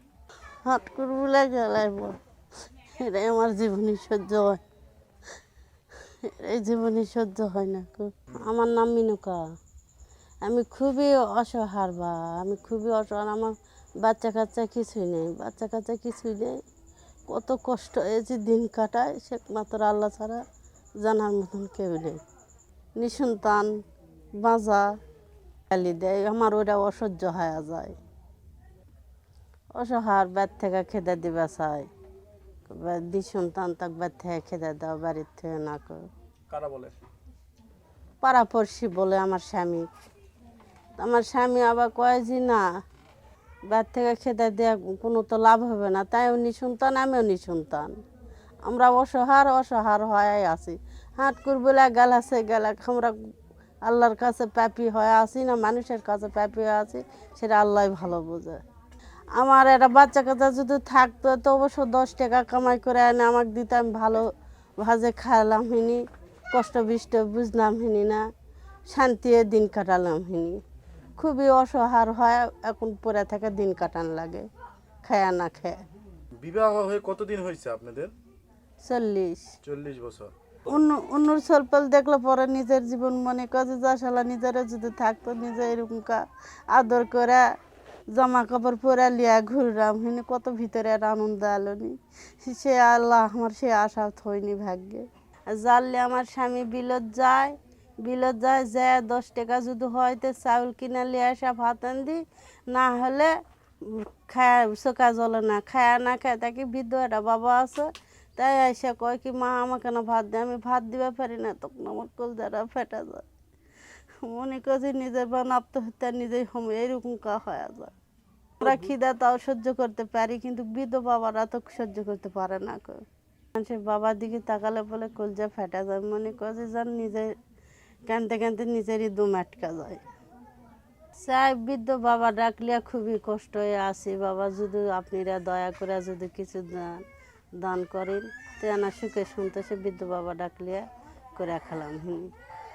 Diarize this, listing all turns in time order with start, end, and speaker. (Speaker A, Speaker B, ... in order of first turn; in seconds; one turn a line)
Speaker A: 0.6-2.2
Speaker A: 2.8-4.6
Speaker A: 6.2-9.4
Speaker A: 10.4-16.6
Speaker A: 17.3-20.4
Speaker A: 21.0-22.2
Speaker A: 23.0-23.7
Speaker A: 24.4-24.9
Speaker A: 25.7-28.0
Speaker A: 29.8-31.9
Speaker A: 32.7-36.1
Speaker B: 36.5-36.9
Speaker A: 38.2-39.9
Speaker A: 41.0-42.6
Speaker A: 43.7-48.0
Speaker A: 48.7-53.2
Speaker A: 53.9-58.6
Speaker A: 59.4-68.3
Speaker A: 68.9-70.6
Speaker A: 71.2-74.5
Speaker A: 75.0-75.8
Speaker B: 76.4-78.1
Speaker A: 78.8-79.5
Speaker B: 79.6-80.3
Speaker A: 80.7-87.5
Speaker A: 88.1-113.3
Speaker A: 114.2-117.9
Speaker A: 118.6-123.0
Speaker A: 123.5-127.3
Speaker A: 128.1-130.0
Speaker A: 131.2-137.1
Speaker A: 137.6-140.9
Speaker A: 141.4-142.3